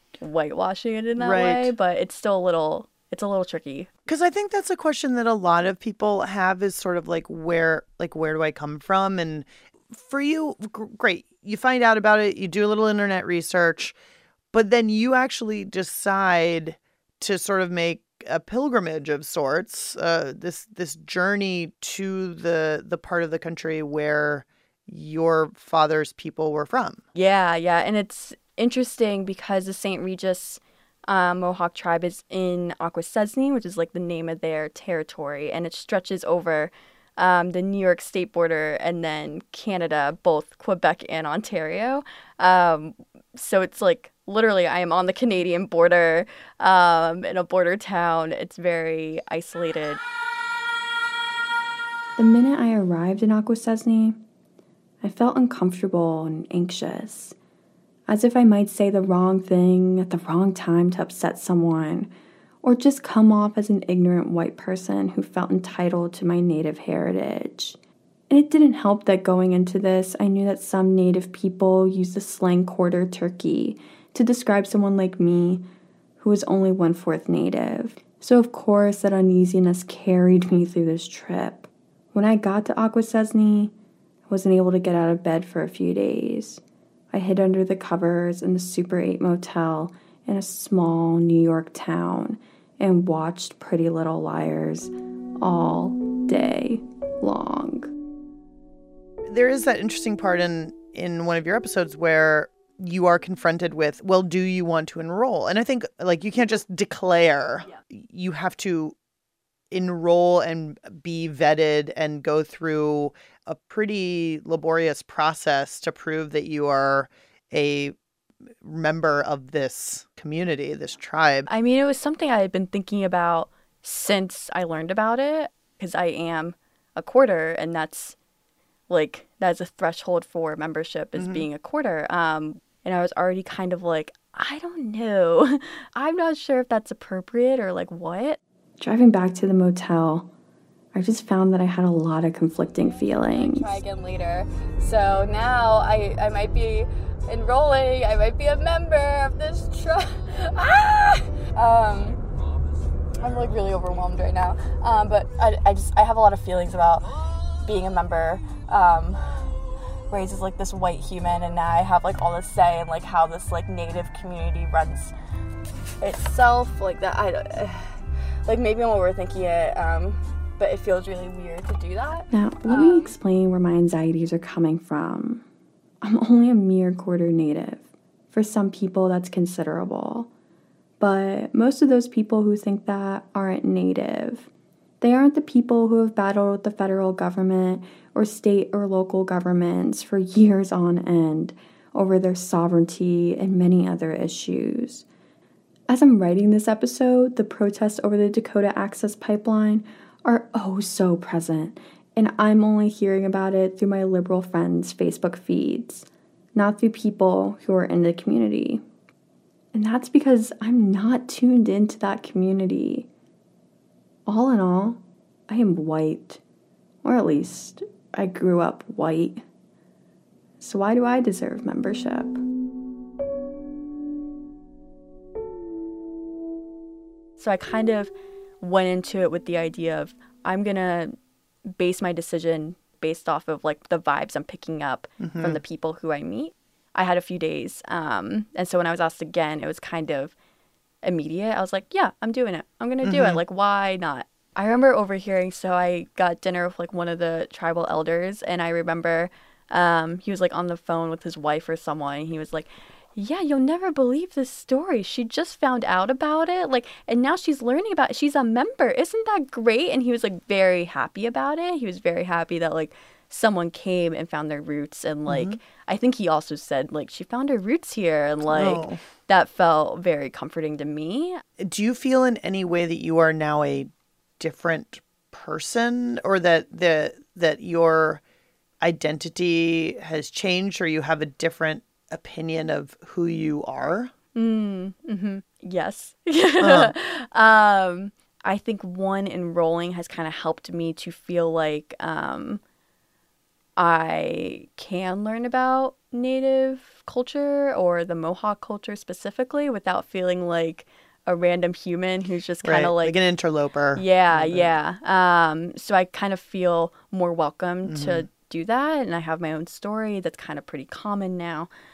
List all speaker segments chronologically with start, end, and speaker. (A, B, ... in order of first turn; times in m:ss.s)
0:00.2-0:03.9 A
0:01.2-0:01.7 B
0:04.1-0:14.0 B
0:14.5-0:27.0 B
0:27.2-0:50.0 A
0:52.2-0:54.2 C
0:55.0-0:57.4 C
0:58.1-1:02.1 C
1:02.6-1:07.8 C
1:08.3-1:15.6 C
1:16.2-1:23.7 C
1:24.3-1:26.6 C
1:27.1-1:37.9 C
1:39.3-1:49.0 B
1:49.7-1:58.0 B
1:58.6-2:01.5 B
2:01.5-2:08.2 A
2:08.9-2:18.4 A
2:11.2-2:11.5 B
2:18.8-2:20.3 C
2:20.9-2:23.8 C
2:22.9-2:32.2 A
2:33.2-2:37.1 A
2:37.6-2:39.5 A
2:40.1-2:45.1 A
2:46.0-2:47.9 A
2:48.4-2:53.2 A
2:52.3-2:55.4 C
2:56.0-3:00.3 C
3:01.0-3:04.5 C
3:05.0-3:15.0 C
3:15.9-3:28.8 C
3:29.7-3:33.1 C
3:34.3-3:36.4 C
3:37.0-3:39.4 C
3:40.6-3:42.4 C
3:47.4-3:51.2 A
3:51.7-4:00.4 A
3:55.2-3:55.6 B
4:01.0-4:31.4 A
4:03.0-4:03.4 B
4:25.3-4:25.6 B
4:28.5-4:29.0 B
4:31.6-4:38.2 B
4:38.8-4:44.1 B
4:44.4-4:52.6 A
4:46.6-4:46.9 B
4:53.8-5:03.2 A
5:02.6-5:04.7 B
5:04.0-5:11.7 A
5:07.9-5:08.3 B